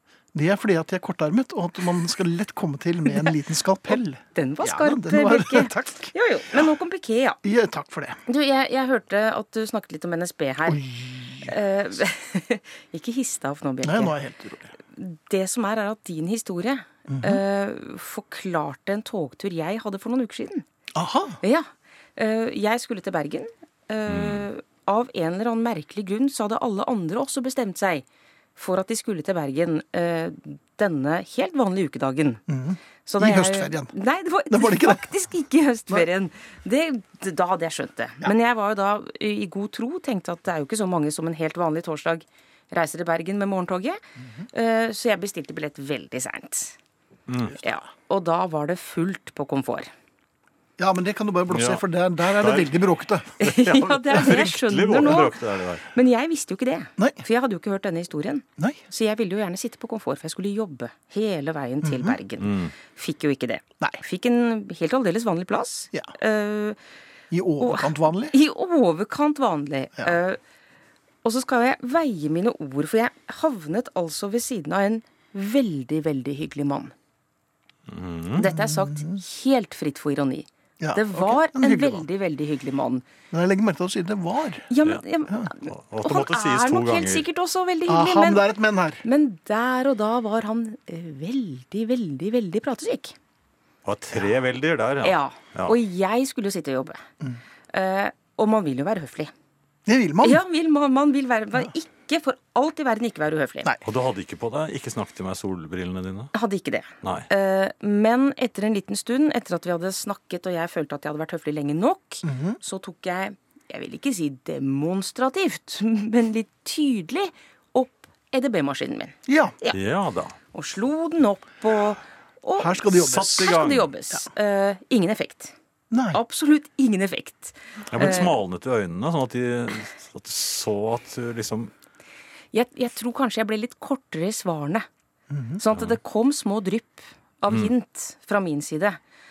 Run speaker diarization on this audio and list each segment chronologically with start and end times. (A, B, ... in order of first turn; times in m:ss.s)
0:00.3-0:06.6 A
0:04.3-0:07.4 B
0:07.4-0:08.2 A
0:08.3-0:10.8 B
0:10.7-0:11.6 A
0:11.4-0:14.1 B
0:13.8-0:14.7 A
0:14.9-0:20.6 B
0:17.1-0:17.4 A
0:20.9-0:21.4 A
0:21.4-0:28.0 B
0:24.1-0:24.4 C
0:28.6-0:32.4 B
0:32.5-0:33.9 A
0:33.0-0:44.0 B
0:34.5-0:35.0 A
0:44.5-0:46.8 B
0:47.3-0:47.6 C
0:47.6-0:49.9 B
0:50.8-0:53.3 A
0:51.5-0:52.7 C
0:53.4-0:55.9 C
0:53.4-1:06.8 B
1:01.8-1:02.2 A
1:02.4-1:02.7 C
1:07.3-1:08.4 A
1:07.6-1:10.4 B
1:11.2-1:16.9 B
1:17.9-1:18.4 C
1:18.3-1:23.0 B
1:18.4-1:19.2 A
1:20.8-1:22.0 A
1:23.3-1:24.7 A
1:24.7-1:28.5 B
1:25.6-1:27.2 C
1:27.9-1:29.0 A
1:29.0-1:33.2 B
1:33.8-1:35.8 C
1:35.0-1:37.0 B
1:37.7-1:39.3 B
1:39.8-1:40.4 A
1:40.2-1:43.7 B
1:43.8-1:46.3 C
1:46.3-1:59.8 B
1:47.0-1:47.3 C
1:52.2-1:52.6 A
1:59.3-1:59.6 A
1:59.7-2:00.4 C
2:00.5-2:05.5 B
2:02.6-2:03.5 A
2:02.9-2:03.9 C
2:05.9-2:06.2 A
2:06.1-2:08.3 B
2:07.9-2:11.7 C
2:12.5-2:14.8 B
2:15.3-2:15.6 A
2:15.6-2:19.0 B